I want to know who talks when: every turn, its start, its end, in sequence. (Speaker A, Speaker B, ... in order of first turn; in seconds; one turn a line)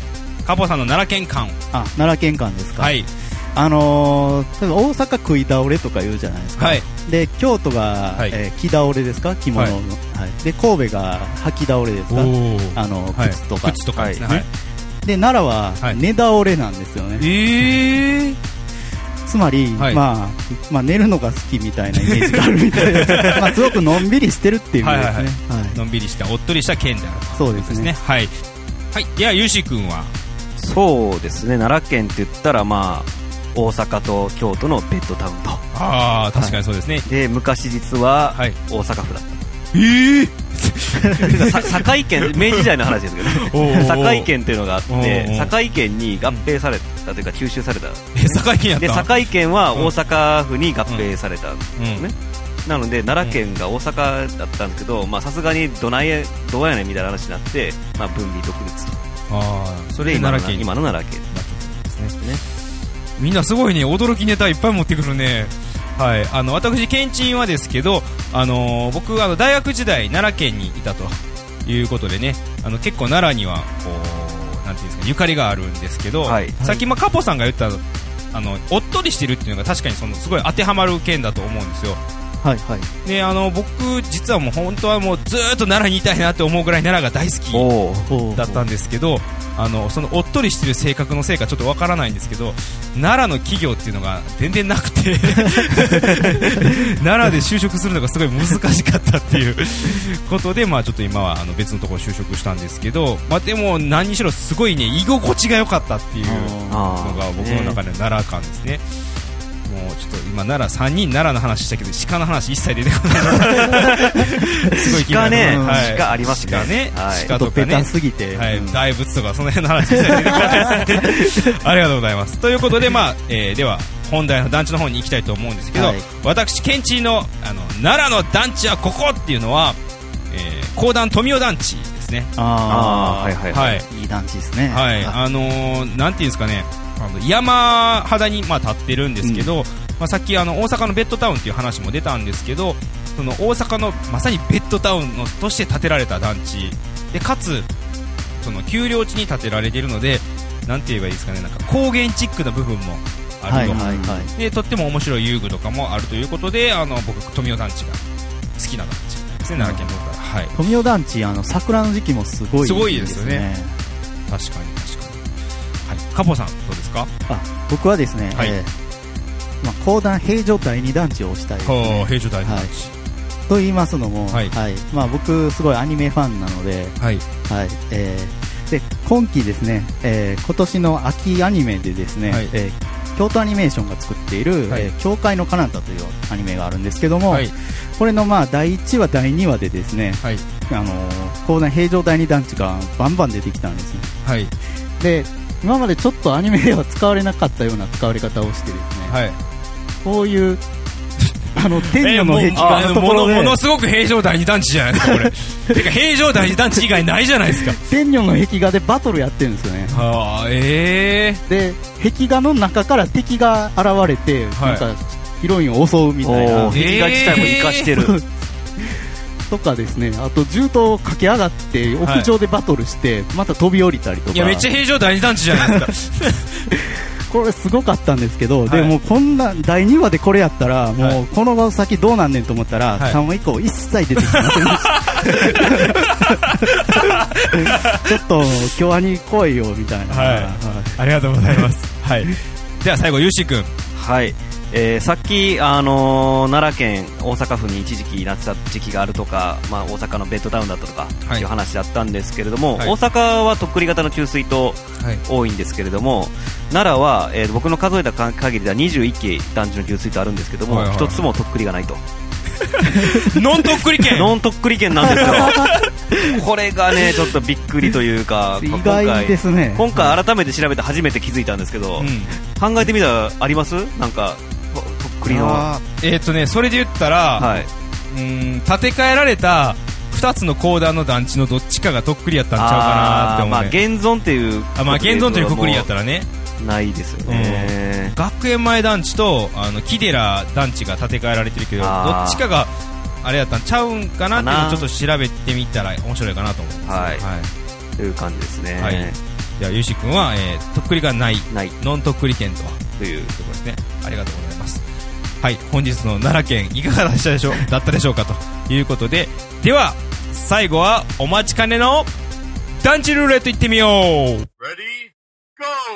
Speaker A: 0.5-1.6
Speaker B: 1.7-3.0
Speaker A: 2.8-3.1
Speaker B: 3.5-14.5
Speaker A: 6.6-6.9
Speaker A: 12.1-14.5
Speaker C: 14.0-14.2
Speaker B: 15.1-17.8
Speaker A: 17.2-18.4
Speaker B: 19.2-25.8
Speaker A: 19.8-20.0
Speaker A: 22.0-23.7
Speaker A: 24.8-28.3
Speaker B: 27.4-27.9
Speaker A: 28.9-30.1
Speaker C: 30.6-35.6
Speaker A: 35.7-37.1
Speaker C: 37.1-39.5
Speaker A: 39.7-42.7
Speaker C: 41.2-52.1
Speaker A: 43.2-44.3
Speaker A: 44.9-45.5
Speaker A: 48.1-49.1
Speaker A: 51.8-52.1
Speaker C: 52.7-59.0
Speaker A: 59.3-60.8
Speaker C: 60.0-61.3
Speaker A: 61.3-62.2
Speaker A: 63.2-77.8
Speaker C: 76.2-76.6
Speaker A: 78.3-82.0
Speaker B: 82.4-82.9
Speaker A: 83.0-87.7
Speaker C: 87.5-88.2
Speaker B: 88.1-88.7
Speaker A: 88.3-108.8
Speaker B: 106.2-106.9
Speaker C: 106.7-107.8
Speaker A: 109.7-129.8
Speaker C: 113.4-114.1
Speaker C: 114.8-117.3
Speaker B: 115.2-116.0
Speaker B: 117.3-118.8
Speaker B: 119.9-121.3
Speaker B: 125.7-126.0
Speaker A: 130.3-132.3
Speaker B: 132.4-135.2
Speaker C: 132.7-133.8
Speaker A: 133.5-133.9
Speaker A: 134.7-147.7
Speaker B: 139.2-139.5
Speaker A: 148.4-158.0
Speaker B: 153.5-154.3
Speaker C: 153.6-154.3
Speaker A: 158.6-160.5
Speaker B: 159.6-160.0
Speaker B: 160.5-163.8
Speaker A: 162.6-163.5
Speaker A: 164.3-165.2
Speaker A: 165.9-167.1
Speaker B: 167.3-168.7
Speaker B: 169.6-172.7
Speaker A: 171.6-172.9
Speaker B: 173.5-194.2
Speaker A: 194.2-194.5
Speaker B: 195.0-199.2
Speaker A: 199.1-199.4
Speaker B: 200.0-200.6
Speaker B: 201.5-203.6
Speaker A: 201.6-207.8
Speaker B: 205.0-205.8
Speaker B: 207.7-210.0
Speaker A: 209.9-211.4
Speaker B: 211.5-218.2
Speaker A: 214.6-214.8
Speaker C: 216.2-218.2
Speaker A: 216.7-217.9
Speaker B: 219.5-224.7
Speaker A: 222.0-222.3
Speaker A: 224.3-226.8
Speaker B: 225.5-225.8
Speaker B: 227.3-241.0
Speaker A: 228.7-228.9
Speaker A: 234.2-238.6
Speaker A: 240.1-243.7
Speaker C: 243.9-262.0
Speaker A: 260.7-261.3
Speaker A: 262.6-264.3
Speaker B: 263.0-263.3
Speaker C: 264.1-275.7
Speaker A: 265.1-265.9
Speaker B: 268.6-269.9
Speaker A: 272.0-272.4
Speaker B: 275.2-275.8
Speaker A: 276.0-283.8
Speaker C: 277.4-277.7
Speaker C: 282.6-285.9
Speaker A: 284.8-286.3
Speaker C: 286.6-288.1
Speaker A: 287.3-292.7
Speaker C: 291.8-292.4
Speaker A: 293.2-297.5
Speaker C: 294.3-294.9
Speaker C: 296.9-297.2
Speaker C: 298.0-299.2
Speaker A: 298.8-304.8
Speaker C: 301.5-301.8
Speaker C: 303.0-303.3
Speaker A: 305.4-312.1
Speaker A: 312.8-314.5